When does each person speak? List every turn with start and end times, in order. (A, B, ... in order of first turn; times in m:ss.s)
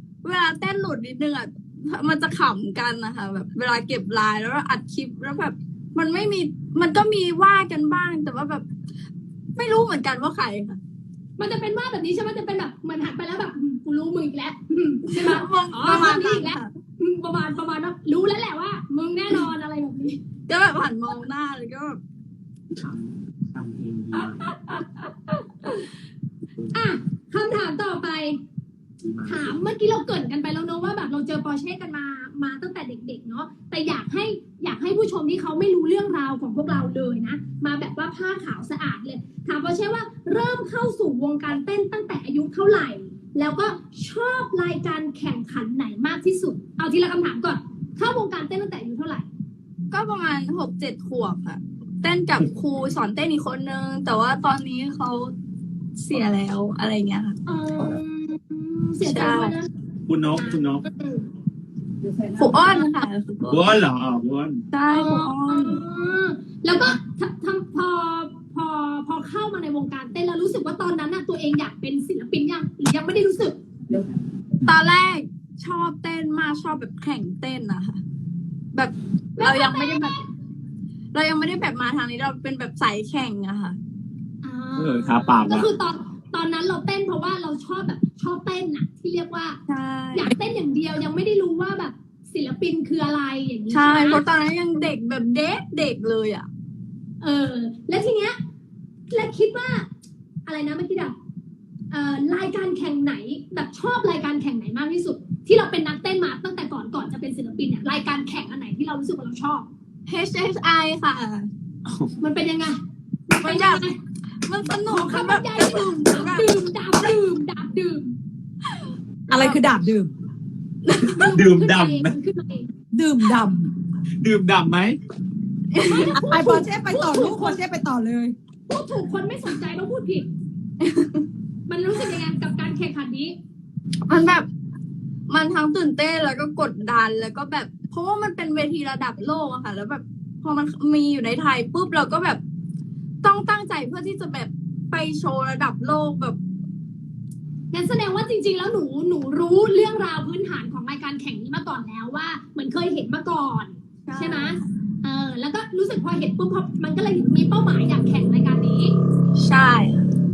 0:00.2-0:08.6 A
0:09.6-0:10.8 A
0:11.4-0:20.2 B
0:15.1-0:16.7 A
0:20.5-0:22.0 A
0:23.5-0:24.4 C
0:26.7-0:28.4 B
0:29.0-0:29.6 C
0:29.2-0:49.2 B
0:49.9-0:55.3 A
0:56.0-0:57.4 A
0:57.4-0:59.7 B
0:59.0-0:59.6 A
1:00.1-1:00.8 C
1:00.4-1:01.2 B
1:02.3-1:03.7 A
1:02.5-1:02.8 B
1:03.5-1:04.6 C
1:04.7-1:05.8 A
1:04.9-1:13.6 B
1:14.6-1:18.0 A
1:18.7-1:20.1 A
1:19.4-1:20.2 B
1:21.1-1:23.8 A
1:24.4-1:29.6 B
1:24.8-1:25.7 C
1:29.7-1:30.3 A
1:30.1-1:34.2 B
1:33.7-1:36.5 A
1:37.2-1:38.4 B
1:39.1-1:39.9 B
1:40.4-1:41.1 B
1:41.9-1:49.7 B
1:50.1-1:51.5 A
1:52.2-1:54.0 B
1:53.4-1:53.8 A
1:54.4-1:56.5 A
1:54.9-1:58.1 B
1:58.7-1:59.6 A
1:59.3-2:00.1 D
2:00.8-2:01.3 A
2:01.0-2:02.7 B
2:01.2-2:02.1 C
2:02.9-2:03.7 D
2:04.2-2:05.0 C
2:05.7-2:06.2 A
2:05.8-2:07.6 B
2:06.1-2:08.3 D
2:08.7-2:10.3 B
2:10.8-2:11.2 A
2:11.7-2:13.3 B
2:14.1-2:14.5 A
2:15.3-2:22.4 A
2:23.2-2:26.4 A
2:27.7-2:38.9 B
2:34.0-2:34.6 A
2:39.4-2:40.1 A